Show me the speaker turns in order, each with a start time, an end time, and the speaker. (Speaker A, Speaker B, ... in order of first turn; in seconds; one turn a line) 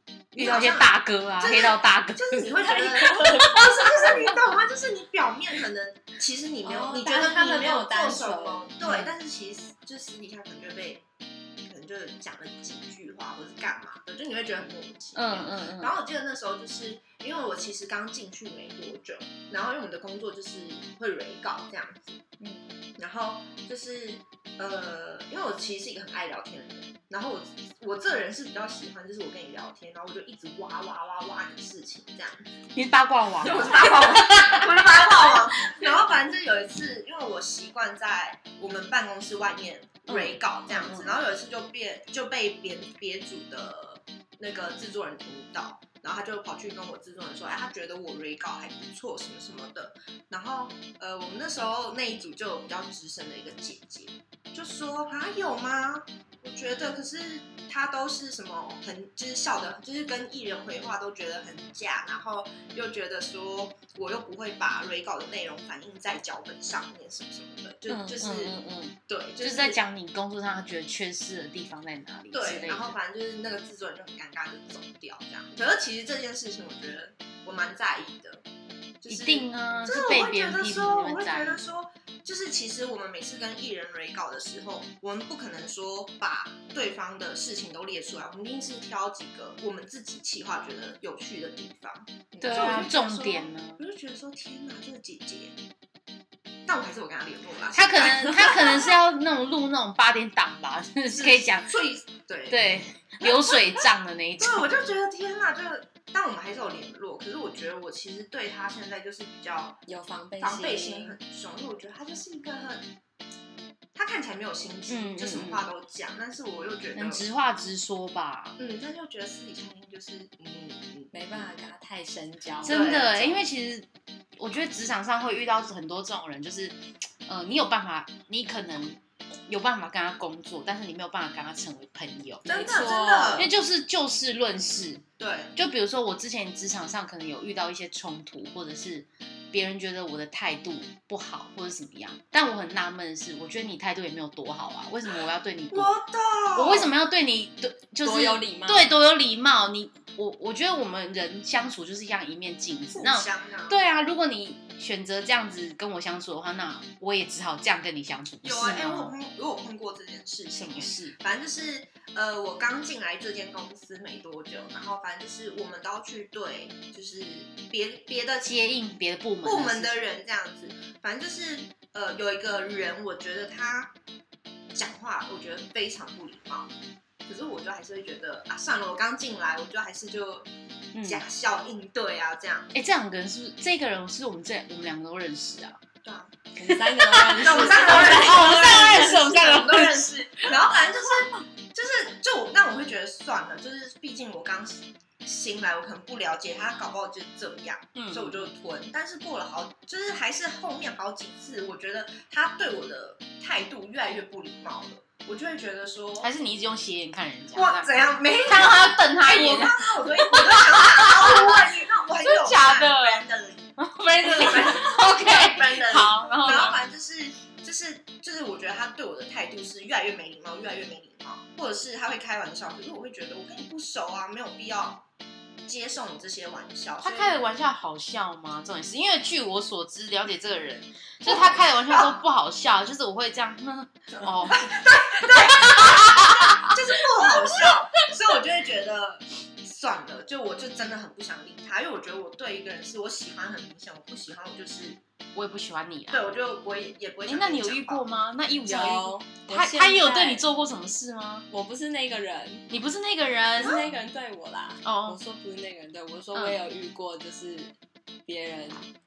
Speaker A: 0.3-11.0
Speaker B: 0.4-4.0
Speaker C: 2.7-4.1
Speaker C: 6.7-8.6
Speaker B: 8.8-9.1
Speaker A: 11.7-22.2
Speaker B: 15.2-15.9
Speaker A: 23.0-32.5
Speaker B: 32.8-35.7
Speaker A: 33.4-68.6
Speaker B: 40.1-41.2
Speaker B: 67.9-73.0
Speaker A: 69.1-69.8
Speaker A: 72.3-78.4
Speaker A: 79.0-95.6
Speaker B: 79.1-81.6
Speaker C: 92.4-92.8
Speaker B: 92.4-93.8
Speaker A: 96.7-98.9
Speaker B: 97.7-101.8
Speaker A: 101.1-109.8
Speaker B: 102.5-104.7
Speaker C: 109.9-111.2
Speaker A: 110.4-112.9
Speaker A: 114.0-117.2
Speaker B: 114.9-115.7
Speaker B: 117.0-118.6
Speaker A: 118.6-121.5
Speaker C: 121.1-122.9
Speaker B: 122.6-123.9
Speaker A: 122.7-123.4
Speaker B: 124.4-132.6
Speaker C: 132.5-133.5
Speaker A: 132.5-133.5
Speaker B: 133.4-146.0
Speaker A: 135.2-135.6
Speaker A: 145.7-146.9
Speaker B: 146.5-159.1
Speaker C: 148.0-148.9
Speaker A: 152.9-153.8
Speaker A: 158.4-168.6
Speaker B: 160.6-161.2
Speaker B: 168.4-170.0
Speaker A: 169.4-173.9
Speaker A: 174.7-176.7
Speaker A: 177.2-180.5
Speaker B: 180.9-181.2
Speaker A: 181.0-182.7
Speaker B: 182.7-185.8
Speaker A: 186.0-186.3
Speaker C: 186.6-189.2
Speaker B: 186.6-190.5
Speaker A: 187.4-206.3
Speaker B: 197.9-198.5
Speaker B: 206.2-211.7
Speaker A: 207.5-213.7
Speaker B: 212.2-213.2
Speaker B: 213.8-216.8
Speaker A: 214.2-225.1
Speaker A: 225.7-227.4
Speaker B: 227.0-236.8
Speaker A: 231.2-232.2
Speaker A: 234.2-245.0
Speaker B: 245.3-246.3
Speaker A: 246.1-248.1
Speaker B: 247.3-251.5
Speaker C: 248.7-250.4
Speaker C: 251.5-252.7
Speaker B: 252.7-253.8
Speaker C: 253.6-257.7
Speaker A: 253.6-253.9
Speaker B: 254.8-255.2
Speaker C: 258.3-258.9